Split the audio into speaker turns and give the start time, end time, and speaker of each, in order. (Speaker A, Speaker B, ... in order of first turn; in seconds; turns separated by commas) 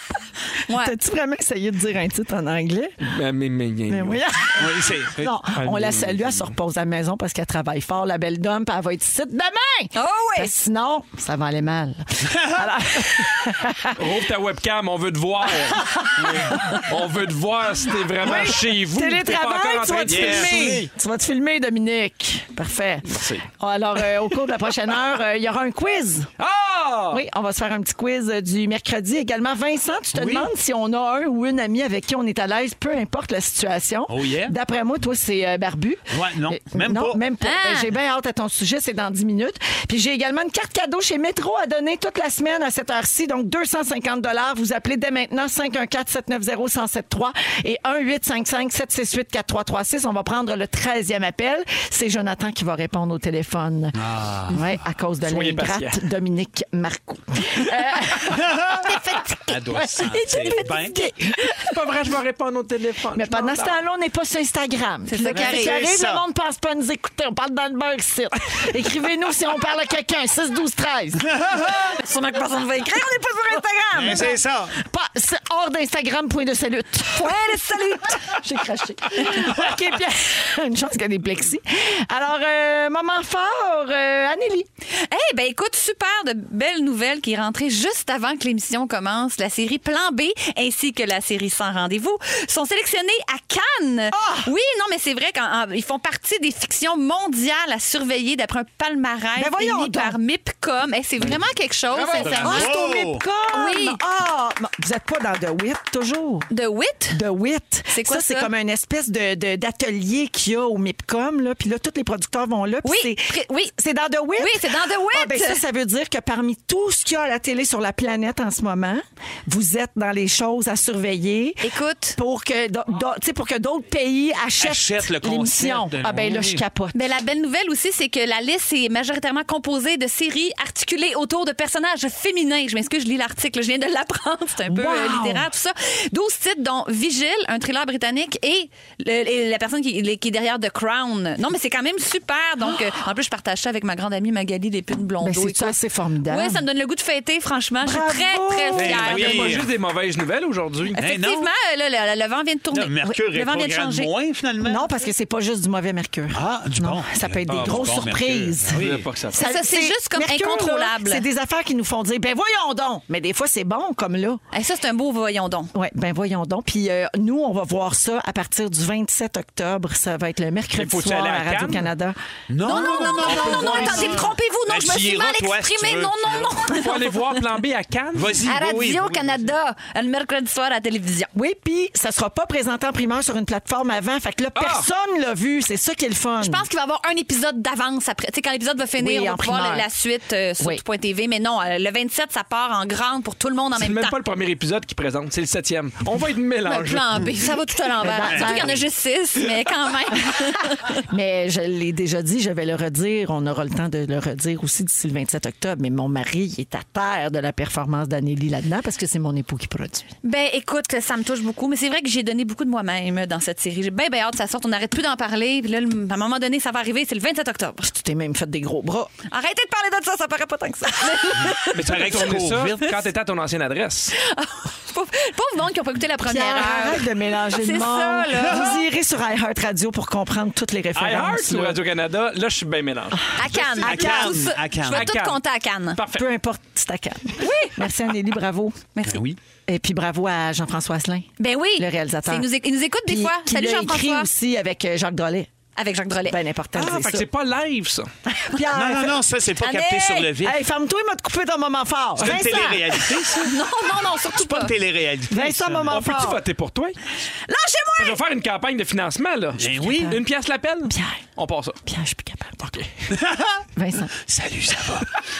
Speaker A: 0.7-1.0, Speaker B: 0.7-3.0, Speaker C: 3.0-4.2, Speaker B: 3.9-14.0, Speaker D: 4.6-5.4, Speaker C: 5.5-6.5, Speaker A: 9.9-10.5, Speaker D: 12.3-12.7, Speaker C: 14.0-16.1, Speaker B: 15.7-16.9, Speaker D: 16.2-16.6, Speaker C: 16.7-20.9, Speaker B: 18.1-26.3, Speaker D: 20.1-20.8, Speaker C: 23.1-23.5, Speaker C: 26.4-27.2, Speaker B: 27.1-54.0, Speaker D: 30.1-30.5, Speaker D: 34.1-34.5, Speaker D: 36.1-37.2, Speaker A: 37.4-37.9, Speaker D: 54.0-54.7, Speaker B: 54.5-59.0, Speaker C: 55.2-56.0, Speaker D: 58.4-58.9, Speaker A: 58.8-61.3, Speaker D: 59.4-61.1, Speaker B: 60.0-61.7, Speaker C: 61.6-63.8, Speaker B: 63.1-71.8, Speaker A: 65.1-65.8, Speaker D: 65.3-66.2, Speaker A: 72.0-74.3, Speaker B: 73.5-84.7, Speaker D: 74.0-74.8, Speaker A: 77.2-78.4, Speaker A: 84.9-102.8, Speaker B: 94.1-94.5, Speaker B: 99.4-100.2, Speaker C: 102.0-102.3, Speaker B: 102.1-106.5, Speaker D: 102.2-103.2, Speaker A: 103.5-104.0, Speaker A: 106.5-107.2, Speaker B: 107.1-127.0, Speaker A: 107.9-108.5, Speaker A: 112.8-113.7, Speaker A: 114.4-115.6, Speaker A: 121.6-122.2, Speaker D: 124.6-126.7, Speaker A: 126.9-145.8, Speaker B: 134.7-135.5, Speaker B: 145.2-146.6, Speaker A: 146.3-149.5, Speaker B: 147.8-149.1, Speaker D: 148.7-149.7, Speaker C: 148.9-151.0, Speaker D: 150.9-151.5, Speaker A: 151.0-154.1, Speaker D: 152.7-154.9, Speaker B: 154.6-164.4, Speaker D: 156.3-159.1, Speaker C: 157.5-158.1, Speaker C: 158.7-159.4, Speaker A: 159.3-161.3, Speaker A: 164.5-165.7, Speaker B: 165.7-172.2, Speaker C: 170.8-171.9, Speaker D: 172.5-176.5, Speaker A: 172.6-177.4, Speaker C: 173.3-174.2, Speaker C: 176.7-178.4, Speaker D: 178.1-179.5, Speaker A: 178.5-181.3, Speaker B: 181.3-186.6, Speaker C: 184.6-184.9, Speaker A: 186.4-194.2, Speaker B: 189.0-189.9, Speaker C: 193.8-197.3, Speaker A: 196.7-201.0, Speaker B: 198.0-198.8, Speaker D: 198.2-198.8, Speaker B: 200.9-210.1, Speaker A: 210.2-217.9, Speaker B: 217.8-219.1, Speaker A: 219.3-222.1, Speaker D: 221.6-223.0, Speaker C: 221.7-224.2, Speaker A: 224.2-228.8, Speaker B: 226.2-231.8, Speaker C: 230.9-233.2, Speaker A: 233.3-236.0, Speaker D: 233.5-235.1, Speaker C: 233.8-234.2, Speaker C: 234.9-235.4, Speaker C: 236.0-236.3, Speaker B: 236.1-238.8, Speaker A: 237.4-237.8, Speaker A: 238.9-239.2, Speaker D: 239.1-239.4, Speaker B: 239.7-242.5, Speaker A: 241.4-244.3, Speaker B: 243.0-245.5, Speaker A: 245.8-246.4, Speaker B: 246.3-247.3, Speaker C: 246.8-248.1, Speaker B: 248.3-249.2, Speaker D: 248.7-250.6, Speaker A: 249.6-250.3, Speaker B: 250.4-253.3, Speaker D: 252.2-253.6, Speaker A: 253.4-254.7, Speaker D: 254.2-256.1, Speaker B: 255.3-256.4, Speaker C: 255.9-257.0, Speaker A: 257.5-258.2, Speaker C: 258.0-261.8, Speaker D: 259.6-260.2, Speaker B: 260.9-261.2, Speaker B: 261.9-262.6, Speaker C: 262.6-262.9, Speaker D: 263.1-263.6, Speaker B: 263.8-264.1, Speaker D: 264.2-265.2